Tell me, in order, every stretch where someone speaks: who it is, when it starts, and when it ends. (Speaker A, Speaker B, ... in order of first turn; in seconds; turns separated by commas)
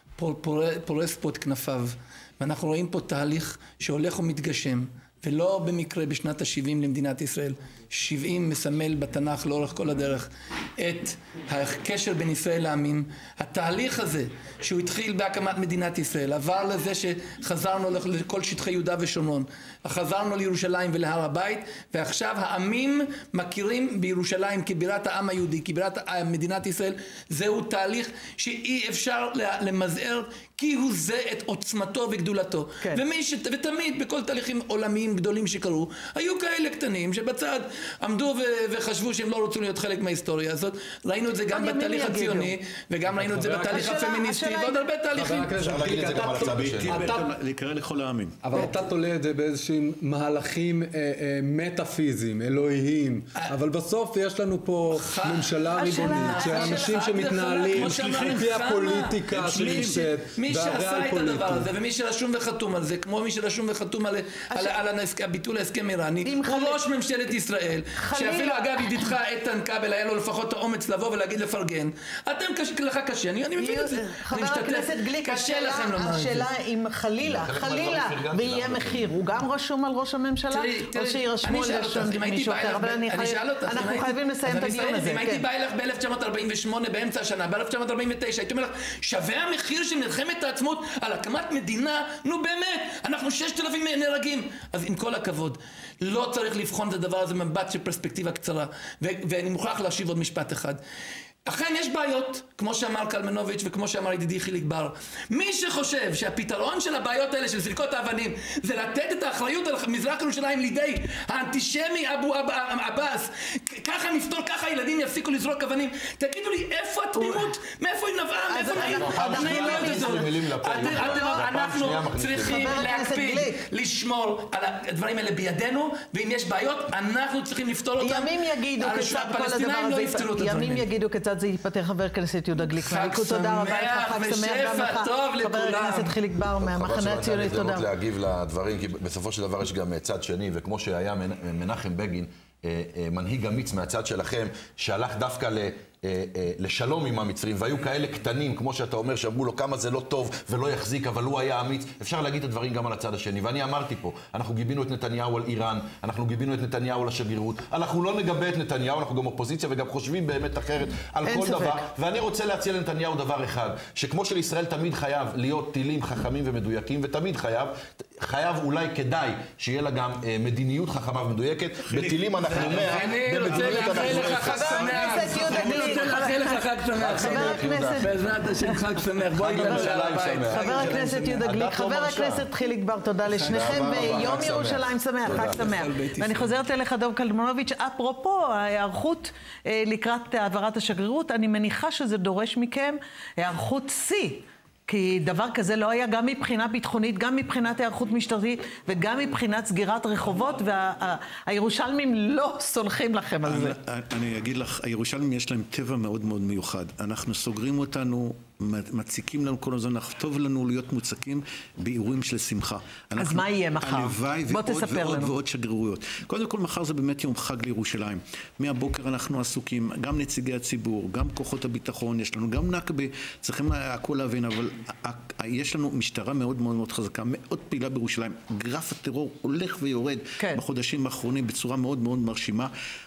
Speaker A: 0.2-45.6, Speaker B: 41.5-42.5, Speaker C: 43.1-44.0, Speaker B: 43.7-44.8, Speaker C: 45.1-47.3, Speaker D: 45.6-47.1, Speaker E: 46.0-48.7, Speaker C: 48.4-61.7, Speaker A: 54.9-76.5, Speaker B: 55.8-57.6, Speaker E: 57.7-58.6, Speaker E: 59.3-60.0, Speaker B: 64.5-64.8, Speaker B: 66.2-66.8, Speaker B: 68.0-69.1, Speaker B: 73.6-85.5, Speaker D: 77.2-79.2, Speaker A: 80.5-100.8, Speaker A: 101.5-130.9, Speaker B: 117.2-117.5, Speaker B: 118.5-120.2, Speaker D: 118.7-122.8, Speaker B: 120.8-121.4, Speaker B: 122.4-123.6, Speaker B: 128.0-137.9, Speaker A: 132.6-136.2, Speaker D: 136.6-174.8, Speaker B: 161.3-161.8, Speaker E: 171.9-176.2, Speaker A: 172.5-181.2, Speaker B: 174.6-178.1, Speaker D: 176.9-178.3, Speaker D: 179.3-182.5, Speaker B: 179.4-203.8, Speaker D: 183.3-185.7, Speaker A: 185.3-186.6, Speaker E: 203.4-232.7, Speaker B: 213.2-215.3